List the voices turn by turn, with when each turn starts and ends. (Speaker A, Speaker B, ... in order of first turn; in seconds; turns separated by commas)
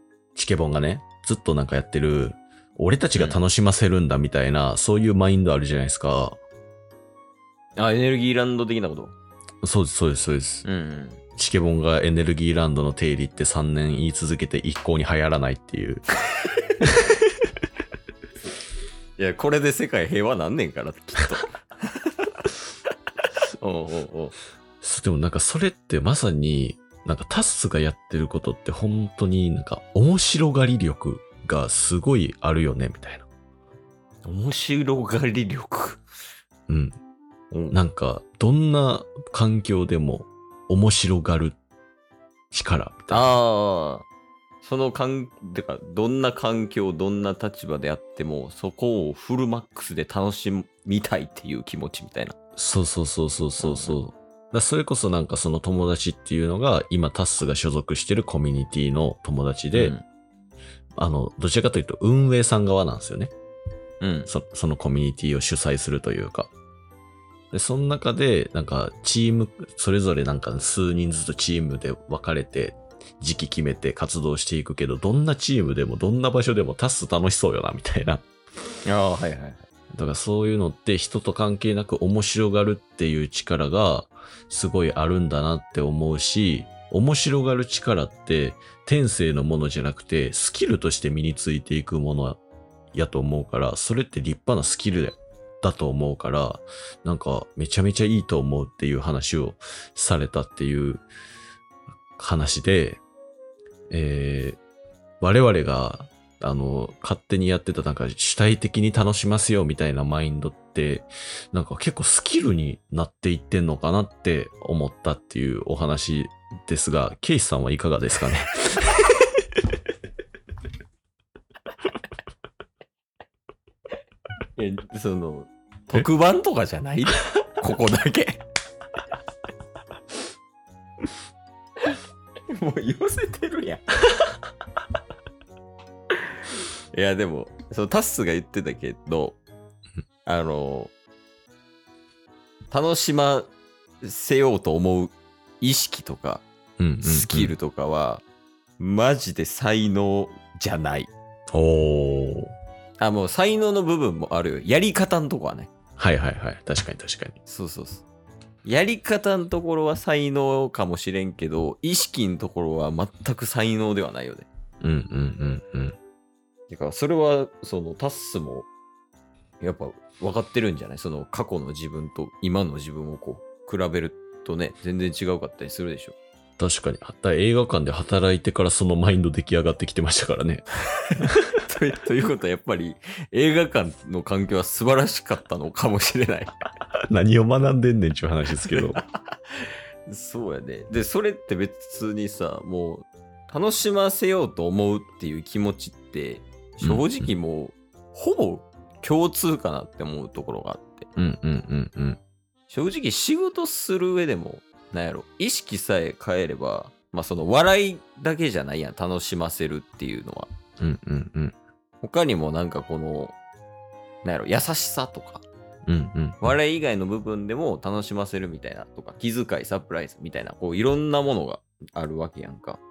Speaker A: 0.3-6.4, Speaker B: 3.2-3.4, Speaker B: 7.8-9.2, Speaker A: 9.6-10.7, Speaker B: 10.6-11.2, Speaker A: 11.4-16.1, Speaker B: 19.2-22.5, Speaker B: 23.6-24.4, Speaker A: 24.8-33.3, Speaker B: 34.2-36.0, Speaker A: 36.7-37.0, Speaker B: 37.5-37.8, Speaker A: 37.7-41.6, Speaker A: 42.5-43.3, Speaker B: 43.1-44.1, Speaker B: 44.6-52.4, Speaker A: 52.6-60.0, Speaker B: 53.6-54.0, Speaker B: 59.7-60.0, Speaker A: 61.0-63.3, Speaker B: 64.0-64.3, Speaker A: 64.3-66.5, Speaker A: 67.5-78.2, Speaker B: 78.8-79.7, Speaker A: 79.9-92.4, Speaker A: 92.9-101.0, Speaker A: 102.2-103.0, Speaker A: 103.9-104.6, Speaker A: 105.2-119.0, Speaker B: 124.6-128.4, Speaker B: 131.8-133.8, Speaker B: 136.5-139.4, Speaker B: 140.2-140.9, Speaker B: 142.7-143.5, Speaker B: 144.0-146.4, Speaker A: 146.8-147.5, Speaker B: 147.0-148.2, Speaker B: 148.8-151.1, Speaker A: 151.5-152.5, Speaker B: 153.0-155.7, Speaker A: 156.0-157.4, Speaker B: 157.5-158.0, Speaker B: 158.7-164.5, Speaker A: 164.8-166.0, Speaker B: 166.7-168.7, Speaker B: 169.6-176.2, Speaker A: 176.6-180.7, Speaker B: 181.2-186.6, Speaker A: 187.1-189.0, Speaker B: 188.6-189.0, Speaker B: 189.6-201.1, Speaker A: 196.8-197.3, Speaker A: 201.2-202.2, Speaker B: 202.7-210.5, Speaker A: 210.8-211.5, Speaker B: 212.0-213.4, Speaker B: 214.2-215.4, Speaker A: 215.9-216.5, Speaker B: 216.4-222.8